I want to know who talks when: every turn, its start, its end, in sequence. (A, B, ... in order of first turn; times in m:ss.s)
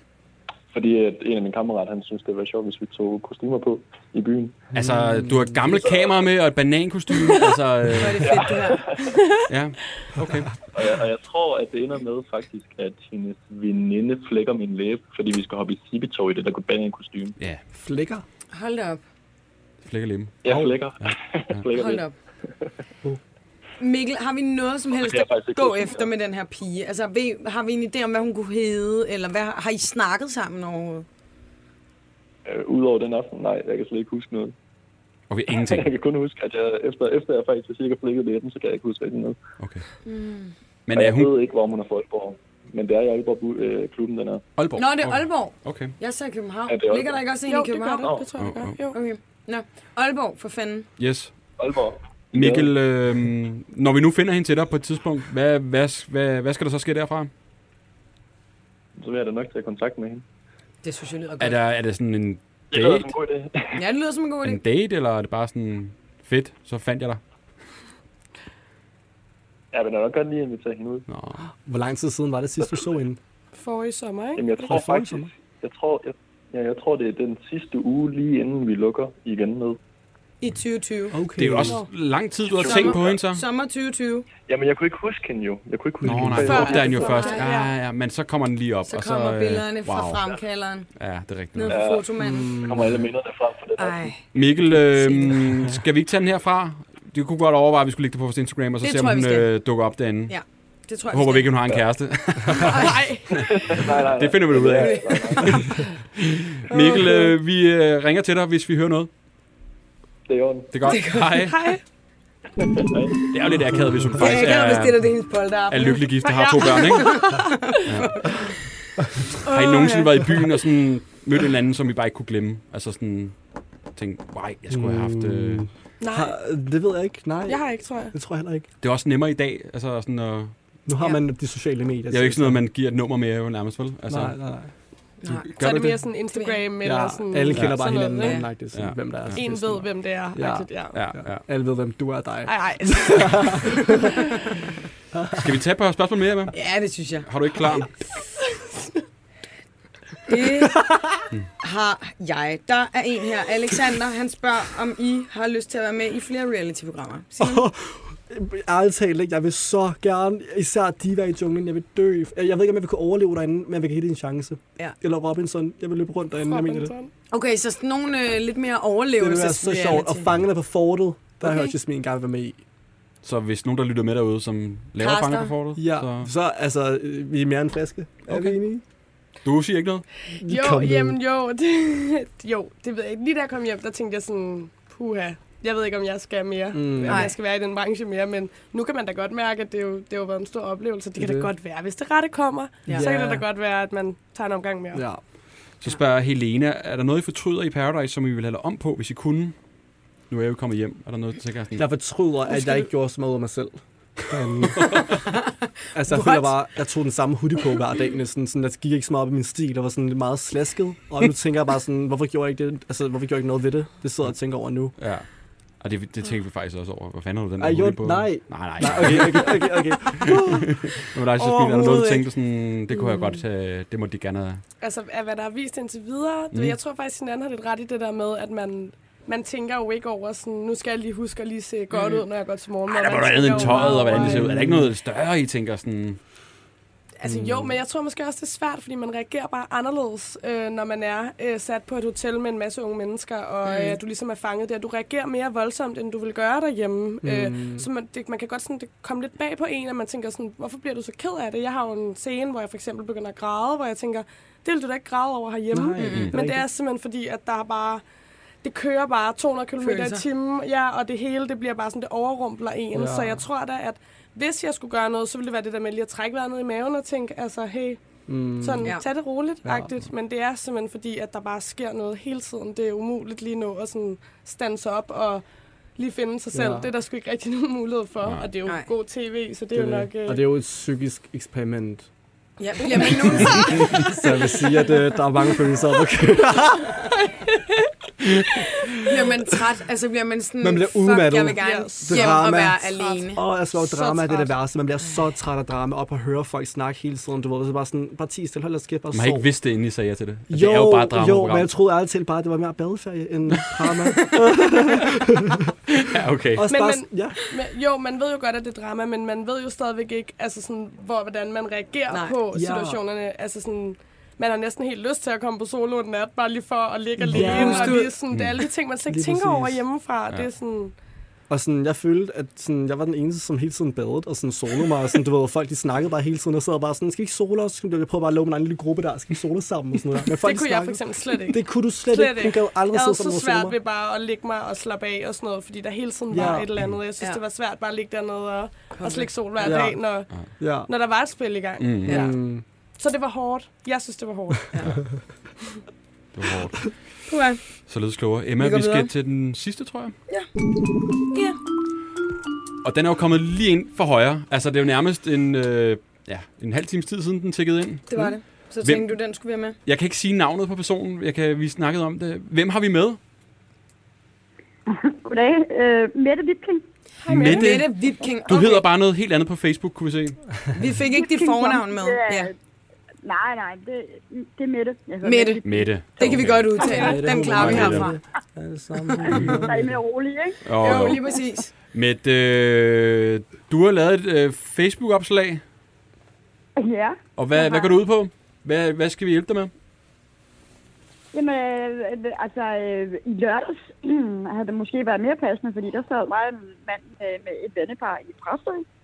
0:00.7-0:04.7 A
0:04.7-0:08.4 B
0:04.8-0:05.6 C
0:05.7-0:06.2 A
0:07.9-0:08.9 D
0:08.3-0:09.1 A
0:09.2-0:09.4 E
0:09.5-0:10.6 B
0:10.7-0:17.4 A
0:17.8-0:18.2 C
0:18.5-0:19.0 D
0:19.9-0:20.4 B
0:20.4-0:22.1 A
0:20.4-0:20.7 C
0:21.0-0:21.6 B
0:21.7-0:22.1 D
0:23.8-0:31.1 D
0:25.0-0:26.1 A
0:32.5-0:34.5 A
0:35.3-0:35.9 B
0:35.5-0:39.4 A
0:40.1-0:40.5 D
0:40.9-0:41.3 B
0:40.9-0:44.4 A
0:44.6-0:45.9 B
0:44.8-0:48.2 D
0:46.7-0:47.3 A
0:47.5-0:49.0 E
0:48.0-0:48.3 A
0:48.4-0:48.8 B
0:48.9-0:50.9 D
0:51.0-0:51.4 B
0:51.6-0:52.7 A
0:52.3-0:57.3 B
0:59.0-1:00.2 A
1:00.8-1:01.6 D
1:01.4-1:03.1 B
1:02.7-1:03.8 A
1:03.7-1:04.6 D
1:04.4-1:07.2 B
1:09.7-1:11.1 A
1:11.1-1:11.5 B
1:11.6-1:13.2 C
1:13.6-1:14.8 E
1:14.4-1:19.8 A
1:14.6-1:15.3 C
1:20.4-1:21.2 D
1:21.1-1:21.8 C
1:21.4-1:23.4 B
1:22.5-1:23.2 A
1:22.6-1:24.3 D
1:24.5-1:26.7 A
1:26.0-1:26.6 C
1:26.0-1:30.2 B
1:26.4-1:27.7 E
1:26.5-1:27.5 D
1:28.9-1:30.9 D
1:31.0-1:31.8 B
1:31.6-1:32.6 D
1:31.7-1:34.2 A
1:32.2-1:32.9 C
1:33.8-1:35.4 D
1:34.3-1:40.4 B
1:38.8-1:39.5 D
1:40.3-1:41.5 D
1:41.1-1:45.7 B
1:42.6-1:43.5 E
1:43.3-1:45.6 A
1:44.7-1:45.4 D
1:46.2-1:49.1 B
1:46.7-1:47.3 E
1:50.3-1:50.7 A
1:50.7-1:51.7 B
1:50.9-1:51.4 D
1:51.4-1:51.8 E
1:52.8-1:53.2 A
1:53.3-1:57.3 B
1:54.2-1:58.6 D
1:56.2-1:57.9 E
1:57.9-1:58.3 B
1:59.5-2:03.4 B
1:59.5-2:00.0 E
1:59.5-1:59.9 D
2:04.0-2:05.7 B
2:04.7-2:08.7 C
2:06.0-2:06.3 E
2:07.5-2:08.1 E
2:08.8-2:10.5 B
2:10.9-2:12.6 C
2:12.1-2:14.4 B
2:14.1-2:14.7 C
2:15.2-2:15.5 D
2:15.6-2:15.9 B
2:15.6-2:18.4 E
2:15.6-2:16.0 C
2:16.3-2:16.6 D
2:16.8-2:24.1 C
2:17.5-2:17.9 B
2:18.2-2:18.5 D
2:18.7-2:19.4 B
2:19.4-2:21.0 E
2:20.9-2:21.5 B
2:22.5-2:23.7 E
2:25.1-2:25.5 C
2:25.3-2:26.6 B
2:26.5-2:27.3 D
2:27.2-2:27.9 B
2:30.3-2:30.8 D
2:30.6-2:31.1 C
2:31.6-2:37.7 D
2:37.4-2:46.9 C
2:46.4-2:47.1 E
2:47.3-2:50.3 D
2:49.2-2:52.6 C
2:51.4-2:51.7 D
2:53.2-2:56.3 B
2:55.0-2:55.5 D
2:55.8-2:58.8 C
2:58.3-2:58.6 B
2:59.4-3:00.0 B
3:00.4-3:15.0 E
3:00.4-3:01.2 C
3:06.7-3:07.3 C
3:07.1-3:07.4 D
3:11.2-3:11.5 C
3:12.9-3:13.4 C
3:14.9-3:15.2 C
3:15.8-3:19.6 B
3:20.3-3:21.9 B
3:21.8-3:25.1 C
3:25.9-3:35.0 C
3:26.1-3:26.5 D
3:35.0-3:35.3 B
3:35.8-3:44.6 B
3:37.6-3:40.8 C
3:44.8-3:54.5 E
3:46.5-3:46.8 B
3:51.9-3:52.2 D
3:52.9-3:56.2 B
3:53.6-3:54.9 C
3:57.2-4:18.0 E
3:57.2-3:57.8 C
4:03.6-4:04.0 D
4:07.2-4:07.9 C
4:15.7-4:16.7 C
4:16.0-4:16.3 D
4:18.6-4:28.0 E
4:19.8-4:20.2 D
4:22.9-4:23.5 C
4:28.3-4:28.9 C
4:28.6-4:35.4 E
4:29.6-4:29.9 C
4:36.0-4:40.4 E
4:36.5-4:36.9 C
4:38.2-4:38.5 B
4:39.7-4:42.1 C
4:42.6-4:44.1 D
4:43.1-4:47.1 C
4:47.3-4:47.8 E
4:49.1-4:53.4 D
4:50.6-4:59.5 C
4:51.6-4:54.5 E
4:59.1-5:01.7 B
5:00.5-5:05.7 C
5:06.0-5:06.7 B
5:06.6-5:07.4 C
5:06.7-5:20.9 E
5:12.1-5:12.4 D
5:12.5-5:13.0 C
5:17.2-5:18.0 C
5:17.3-5:18.1 D
5:18.3-5:18.6 B
5:19.1-5:19.8 C
5:21.5-5:33.8 C
5:30.3-5:40.3 E
5:36.3-5:36.7 C
5:38.9-5:39.3 D
5:39.6-5:40.9 C
5:40.9-5:42.4 E
5:41.8-5:42.2 B
5:42.1-5:42.6 C
5:43.0-5:44.7 E
5:46.3-5:47.0 B
5:47.3-5:47.6 D
5:47.9-5:50.1 B
5:48.6-5:49.1 D
5:51.3-5:51.6 D
5:52.8-5:59.1 B
5:58.1-5:59.8 D
5:59.8-6:03.2 B
6:04.9-6:06.8 F
6:07.2-6:07.8 E
6:07.3-6:07.9 B
6:07.4-6:08.8 D
6:08.5-6:10.4 B
6:10.7-6:12.5 D
6:11.1-6:12.6 F
6:13.2-6:17.1 F
6:15.2-6:18.2 D
6:15.6-6:16.8 B
6:16.9-6:20.0 C
6:17.4-6:18.1 B
6:19.3-6:19.6 B
6:19.5-6:21.1 F
6:20.6-6:21.2 B
6:20.8-6:21.7 D
6:21.9-6:25.6 B
6:26.8-6:28.0 F
6:27.4-6:29.7 B
6:31.3-6:38.8 F